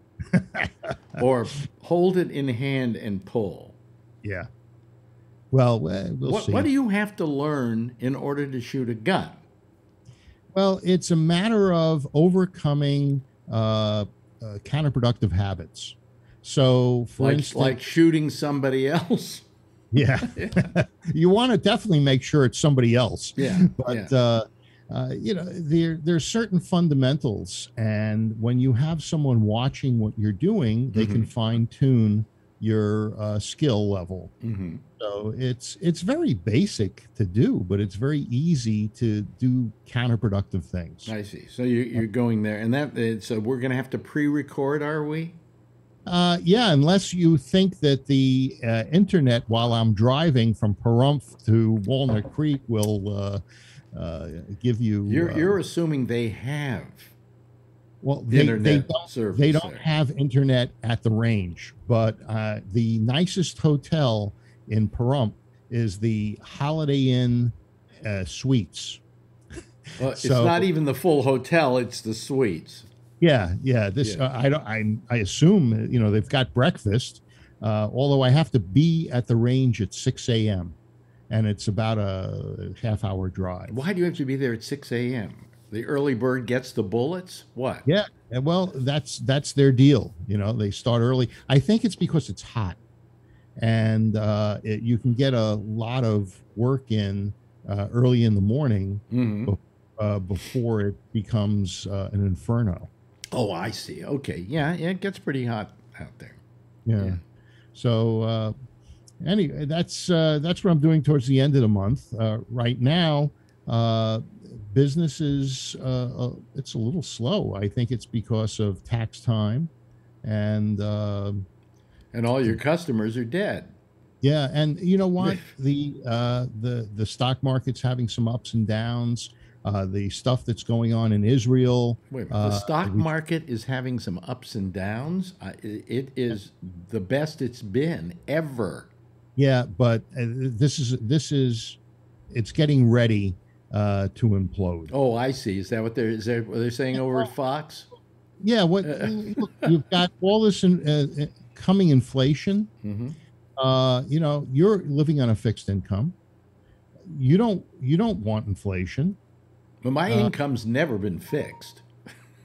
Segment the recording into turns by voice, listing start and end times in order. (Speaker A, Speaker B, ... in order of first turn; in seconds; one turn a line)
Speaker A: 0.3-1.2
Speaker B: 1.2-3.8
Speaker A: 4.2-4.5
Speaker A: 5.5-6.7
Speaker B: 6.2-9.4
Speaker A: 10.5-17.9
Speaker B: 17.2-19.4
Speaker A: 19.9-34.3
Speaker B: 20.3-20.7
Speaker B: 23.4-24.1
Speaker B: 30.9-31.3
Speaker B: 34.4-34.8
Speaker A: 35.0-41.1
Speaker B: 41.0-45.4
Speaker A: 46.0-55.6
Speaker B: 55.0-57.1
Speaker A: 58.0-69.0
Speaker B: 58.3-59.9
Speaker A: 70.0-70.7
Speaker B: 70.0-72.9
Speaker A: 73.2-80.7
Speaker A: 81.3-83.8
Speaker B: 83.7-87.8
Speaker A: 87.8-92.8
Speaker A: 93.6-102.9
Speaker B: 99.1-99.5
Speaker B: 103.3-106.4
Speaker A: 106.8-107.2
Speaker A: 107.7-108.5
Speaker A: 109.2-119.7
Speaker A: 120.2-121.5
Speaker B: 122.1-123.7
Speaker A: 124.2-133.1
Speaker B: 132.1-138.9
Speaker A: 139.4-141.8
Speaker A: 142.3-144.9
Speaker B: 144.9-147.9
Speaker A: 147.0-147.3
Speaker A: 148.4-152.7
Speaker B: 148.8-149.7
Speaker B: 152.8-153.2
Speaker A: 153.6-156.1
Speaker A: 157.0-159.2
Speaker B: 159.8-161.8
Speaker A: 160.1-160.3